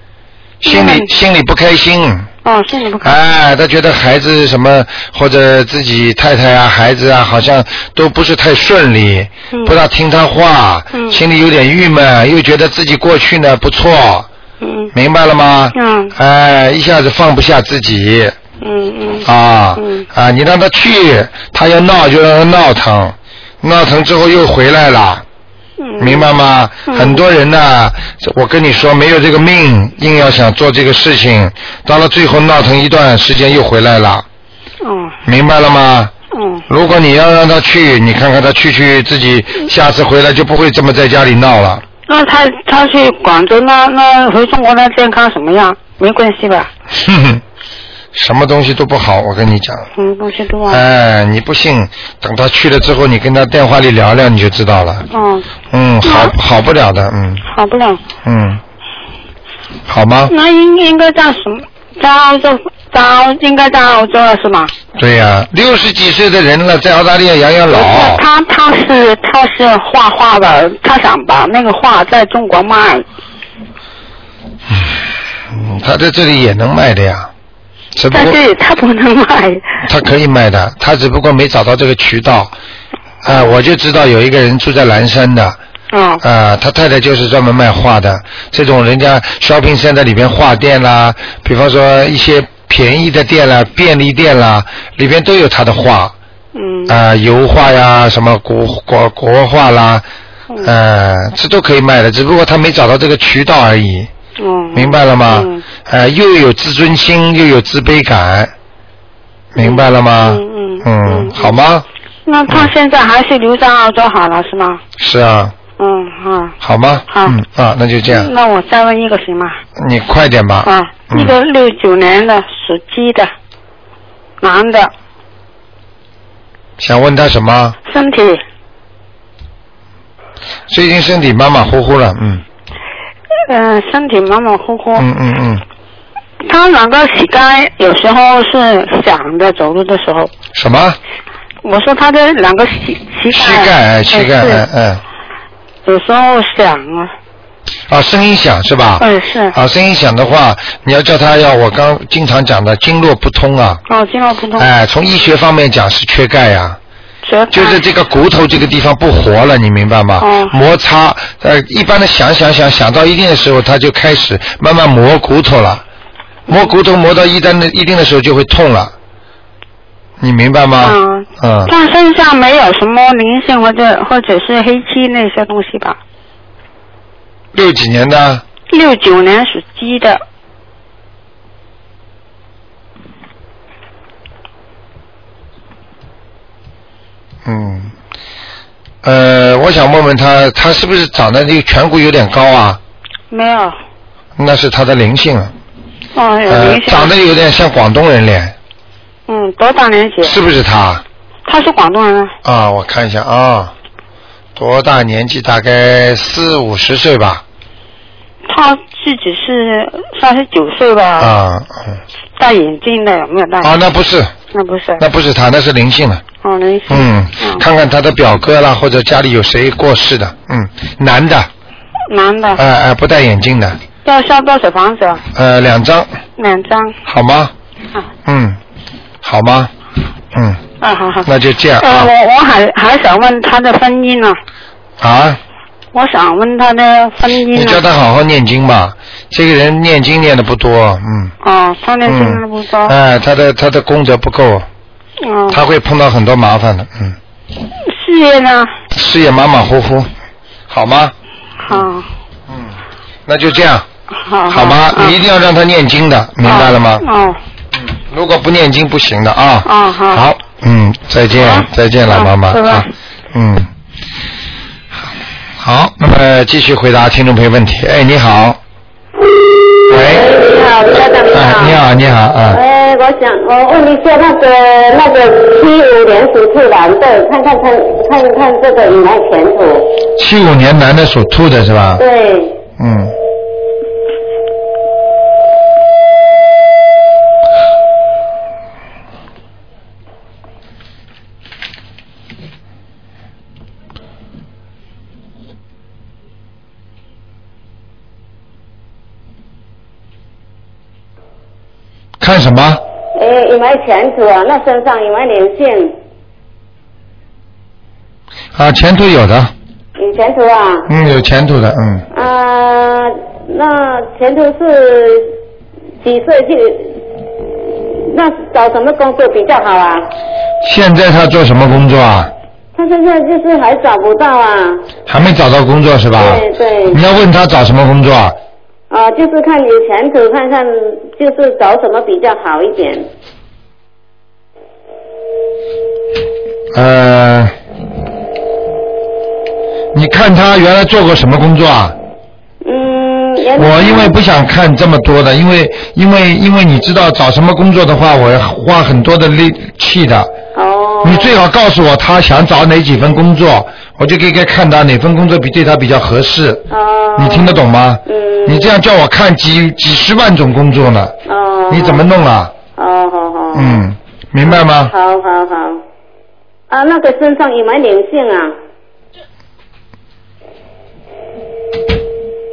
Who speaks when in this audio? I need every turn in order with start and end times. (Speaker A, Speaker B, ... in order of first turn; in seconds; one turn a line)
Speaker A: 0.6-1.1
Speaker B: 0.6-2.3
Speaker A: 2.4-3.2
Speaker B: 3.0-14.3
Speaker A: 9.5-9.8
Speaker A: 10.9-11.2
Speaker A: 14.6-14.9
Speaker B: 14.9-18.4
Speaker A: 15.8-16.1
Speaker A: 18.6-19.3
Speaker B: 19.2-25.2
Speaker A: 19.8-20.1
Speaker A: 25.8-26.3
Speaker B: 26.0-34.3
Speaker A: 26.9-27.2
Speaker A: 34.8-35.2
Speaker B: 35.2-36.1
Speaker A: 36.3-36.6
Speaker B: 36.7-41.8
Speaker A: 42.1-46.7
Speaker B: 46.9-47.4
Speaker B: 48.1-49.9
Speaker A: 50.0-50.8
Speaker B: 50.7-55.1
Speaker A: 55.1-55.5
Speaker B: 55.7-57.5
Speaker A: 56.0-56.4
Speaker A: 57.5-58.0
Speaker B: 58.2-58.6
Speaker B: 59.9-60.3
Speaker A: 60.3-64.7
Speaker B: 65.0-68.2
Speaker A: 67.7-73.0
Speaker B: 74.7-75.0
Speaker B: 75.5-77.3
Speaker B: 78.0-78.4
Speaker A: 78.1-79.8
Speaker B: 79.8-82.5
Speaker B: 83.2-85.6
Speaker A: 83.2-83.6
Speaker A: 85.9-86.2
Speaker B: 86.2-96.1
Speaker A: 96.5-97.0
Speaker B: 96.9-100.0
Speaker B: 100.6-104.1
Speaker A: 104.4-105.6
Speaker B: 104.7-108.5
Speaker B: 109.5-111.9
Speaker A: 109.6-111.6
Speaker A: 112.3-114.8
Speaker B: 115.0-115.5
Speaker A: 115.8-116.6
Speaker B: 116.6-118.3
Speaker A: 117.1-117.4
Speaker A: 118.1-119.6
Speaker B: 119.8-121.4
Speaker A: 120.7-123.3
Speaker A: 124.4-124.9
Speaker B: 126.8-127.8
Speaker A: 127.9-128.4
Speaker B: 130.7-132.4
Speaker A: 133.5-135.1
Speaker B: 134.9-135.6
Speaker A: 136.4-140.3
Speaker B: 140.6-141.0
Speaker A: 141.6-144.7
Speaker B: 143.3-145.0
Speaker A: 145.8-147.1
Speaker B: 147.9-153.8
Speaker A: 149.0-149.6
Speaker A: 153.9-154.7
Speaker B: 154.6-156.8
Speaker A: 157.2-157.9
Speaker B: 157.5-165.8
Speaker A: 160.2-160.5
Speaker A: 166.5-166.7
Speaker B: 166.5-168.9
Speaker B: 170.2-171.7
Speaker A: 170.8-176.0
Speaker B: 177.5-178.4
Speaker A: 178.7-180.2
Speaker B: 187.4-187.9
Speaker B: 189.0-192.8
Speaker A: 193.3-193.8
Speaker B: 194.4-195.5
Speaker A: 196.2-197.1
Speaker B: 196.5-198.6
Speaker A: 199.3-200.4
Speaker B: 200.2-201.0
Speaker A: 201.5-202.3
Speaker B: 202.4-203.7
Speaker B: 204.6-207.4
Speaker A: 208.5-211.3
Speaker B: 211.2-212.0
Speaker A: 212.4-213.8
Speaker B: 213.6-214.3
Speaker A: 214.5-215.0
Speaker B: 215.0-216.2
Speaker A: 216.4-217.6
Speaker B: 216.9-221.5
Speaker A: 222.1-222.6
Speaker B: 222.6-223.8
Speaker A: 224.1-225.2
Speaker B: 225.3-226.1
Speaker A: 226.4-226.9
Speaker B: 227.1-227.5
Speaker B: 228.3-228.6
Speaker B: 229.2-229.7
Speaker B: 230.3-230.6
Speaker A: 230.8-234.4
Speaker B: 231.2-232.1
Speaker B: 235.0-235.4
Speaker A: 235.9-237.8
Speaker B: 237.5-241.3
Speaker A: 241.4-242.9
Speaker B: 242.1-244.7
Speaker A: 245.2-245.6
Speaker B: 245.5-247.2
Speaker A: 247.9-248.7
Speaker B: 248.9-250.1
Speaker B: 250.7-251.1
Speaker A: 251.6-252.1
Speaker B: 253.3-253.9
Speaker A: 254.2-255.2
Speaker B: 254.5-257.1
Speaker A: 256.4-257.4
Speaker B: 257.8-263.7
Speaker A: 259.7-260.3
Speaker A: 261.4-262.9
Speaker B: 265.6-268.6
Speaker B: 269.9-270.3
Speaker C: 269.9-271.8
Speaker B: 271.3-272.6
Speaker C: 272.5-279.9
Speaker B: 280.2-282.0
Speaker C: 282.0-282.6
Speaker B: 282.8-283.1
Speaker B: 302.2-302.8
Speaker C: 303.2-305.9
Speaker B: 308.6-309.5
Speaker C: 310.0-310.9
Speaker B: 310.9-312.1
Speaker C: 312.1-315.3
Speaker C: 316.0-317.0
Speaker C: 318.1-320.1
Speaker B: 320.6-322.3
Speaker C: 322.8-324.9
Speaker B: 325.1-328.4
Speaker C: 326.2-327.0
Speaker C: 328.9-333.1
Speaker B: 336.7-337.5
Speaker B: 339.9-342.0
Speaker C: 342.6-344.2
Speaker B: 343.6-350.3
Speaker C: 350.6-351.4
Speaker B: 351.0-361.1
Speaker C: 356.7-358.8
Speaker C: 361.3-362.1
Speaker B: 361.7-362.5
Speaker C: 362.8-363.9
Speaker B: 363.5-364.9
Speaker C: 364.5-365.8
Speaker C: 366.7-368.6